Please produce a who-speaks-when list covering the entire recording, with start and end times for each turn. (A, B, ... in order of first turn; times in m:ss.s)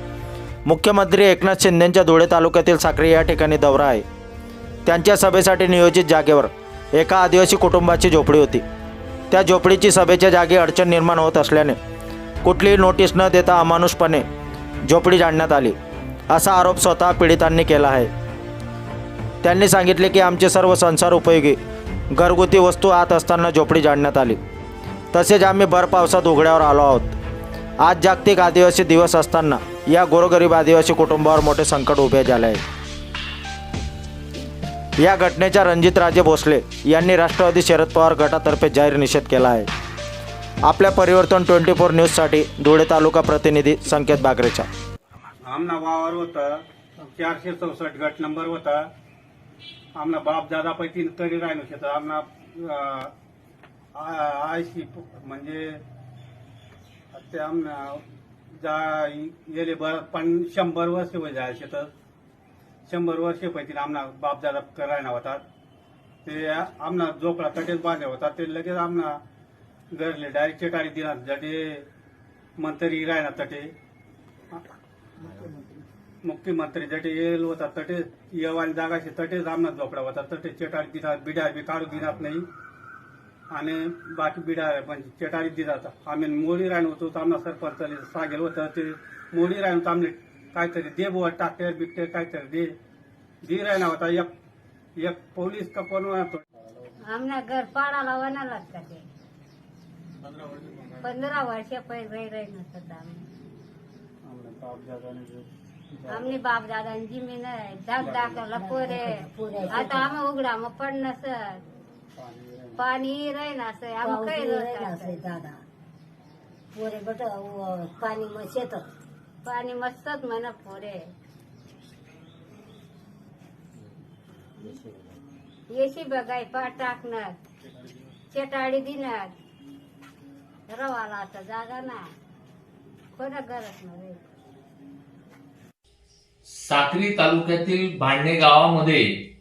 0:00.7-0:04.0 A
0:04.9-0:08.6 A
0:09.3-0:11.8 A
0:12.4-0:14.3 A
0:14.9-0:15.8 A
0:16.3-0:18.1 A
0:19.4-0:21.6 A
0:22.1-0:24.4 A
0:25.1-0:27.2 A
0:27.8-0:32.6 A
0:35.0-0:39.7 A
0:40.6-0:44.7 A
0:45.4-0:48.8 B
0:50.0-0:53.1 B
0:54.0-0:55.8 B
0:57.1-0:58.0 B
0:58.6-1:01.9 B
1:02.9-1:05.4 B
1:06.2-1:09.2 B
1:09.9-1:11.9 B
1:12.6-1:13.7 B
1:16.2-1:22.5 B
1:23.5-1:32.7 B
1:33.4-1:34.3 B
1:35.0-1:36.4 B
1:37.1-1:39.0 C
1:40.9-1:43.2 C
1:44.2-1:46.3 B
1:46.1-1:49.1 C
1:48.0-1:48.4 B
1:48.5-1:50.2 D
1:49.7-1:51.6 C
1:52.2-1:52.8 B
1:52.8-1:55.2 C
1:54.0-1:55.6 D
1:56.7-1:58.9 D
1:59.4-2:01.1 C
2:05.7-2:07.4 C
2:08.3-2:09.3 C
2:10.7-2:12.1 C
2:13.1-2:14.2 C
2:16.5-2:19.3 E